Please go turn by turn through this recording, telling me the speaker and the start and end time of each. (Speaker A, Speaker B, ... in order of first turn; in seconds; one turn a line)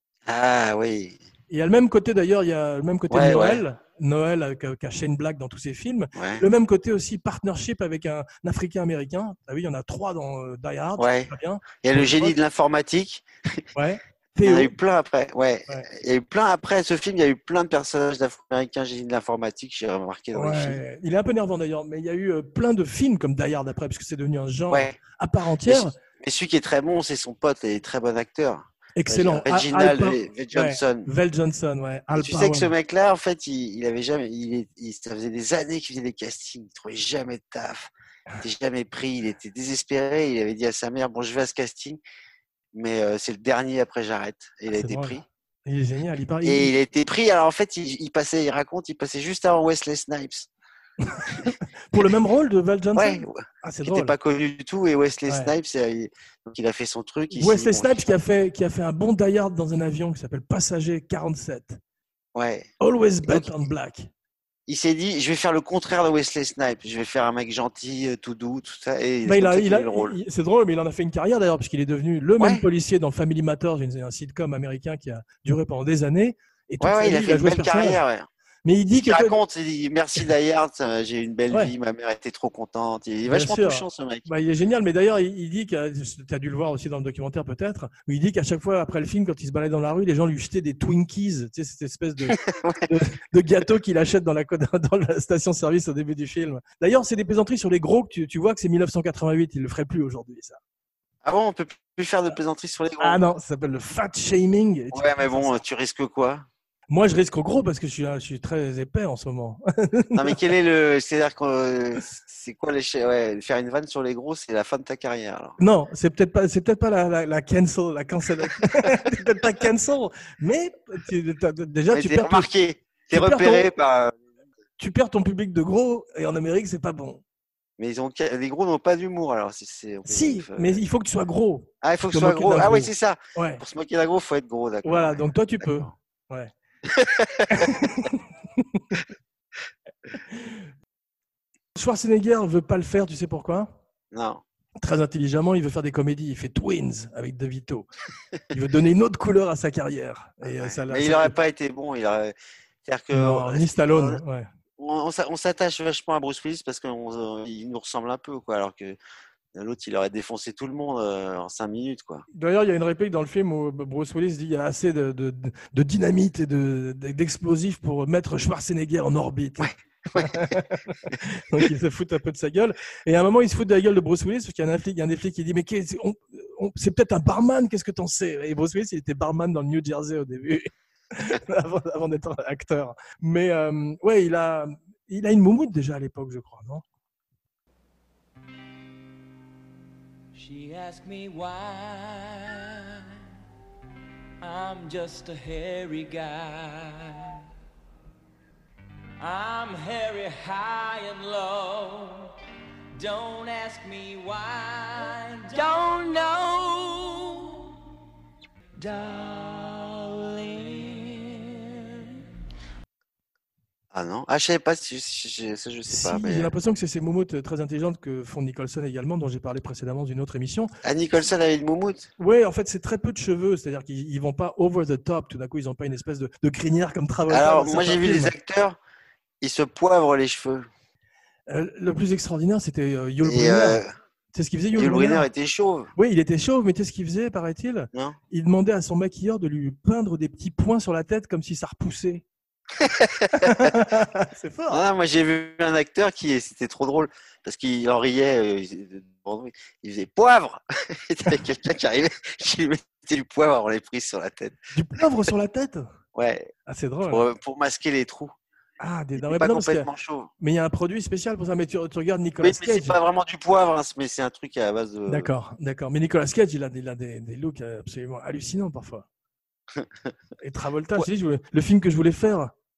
Speaker A: 0.3-1.2
Speaker B: 1.5-12.4
Speaker A: 3.1-3.6
Speaker A: 6.2-6.5
Speaker A: 11.0-13.6
Speaker B: 13.8-14.7
Speaker A: 14.4-20.8
Speaker B: 20.4-26.0
Speaker A: 24.7-25.0
Speaker A: 25.7-31.1
Speaker B: 29.0-32.7
Speaker A: 32.2-42.0
Speaker A: 42.7-45.2
Speaker B: 44.7-46.7
Speaker A: 46.4-50.5
Speaker B: 51.0-54.1
Speaker A: 51.4-52.0
Speaker A: 53.0-58.1
Speaker B: 57.3-61.8
Speaker A: 62.4-62.7
Speaker B: 62.8-64.1
Speaker A: 63.3-63.5
Speaker A: 64.7-70.2
Speaker B: 69.2-78.0
Speaker A: 72.4-72.7
Speaker A: 76.8-78.3
Speaker B: 78.7-79.3
Speaker A: 78.9-84.3
Speaker B: 83.3-100.6
Speaker A: 92.3-92.9
Speaker A: 101.2-103.2
Speaker B: 103.0-105.6
Speaker A: 104.9-106.5
Speaker B: 106.9-110.4
Speaker A: 110.1-115.6
Speaker B: 115.6-122.5
Speaker A: 118.6-119.1
Speaker A: 121.9-124.2
Speaker B: 123.1-123.7
Speaker B: 124.8-127.2
Speaker A: 127.8-130.8
Speaker B: 130.1-133.6
Speaker A: 131.8-135.2
Speaker B: 134.8-136.5
Speaker A: 136.9-137.7
Speaker B: 137.5-139.0
Speaker B: 140.3-140.7
Speaker B: 141.8-143.8
Speaker A: 144.1-144.4
Speaker B: 144.8-147.9
Speaker B: 148.5-151.3
Speaker A: 150.4-152.3
Speaker A: 152.8-154.2
Speaker B: 153.1-154.5
Speaker A: 154.8-159.0
Speaker A: 159.5-162.2
Speaker B: 162.3-186.8
Speaker A: 169.6-170.6
Speaker C: 190.3-193.0
Speaker C: 194.4-197.4
Speaker C: 199.2-202.3
Speaker C: 203.0-207.8
Speaker C: 208.8-212.2
Speaker A: 213.9-216.5
Speaker B: 215.9-220.7
Speaker A: 220.8-222.1
Speaker B: 222.2-228.3
Speaker A: 227.3-228.8
Speaker A: 229.4-230.7
Speaker B: 231.5-233.8
Speaker A: 233.2-233.9
Speaker B: 234.3-235.3
Speaker A: 234.8-235.9
Speaker B: 236.0-242.2
Speaker A: 237.9-238.2
Speaker A: 242.8-243.7
Speaker B: 243.3-244.8
Speaker A: 244.7-254.6
Speaker B: 254.7-255.9
Speaker A: 256.1-256.5
Speaker B: 256.7-257.3
Speaker A: 257.1-258.3
Speaker B: 258.8-259.9
Speaker A: 259.2-260.3
Speaker B: 260.4-263.0
Speaker A: 262.4-265.3
Speaker B: 265.1-269.1
Speaker A: 269.8-270.1
Speaker B: 270.4-272.5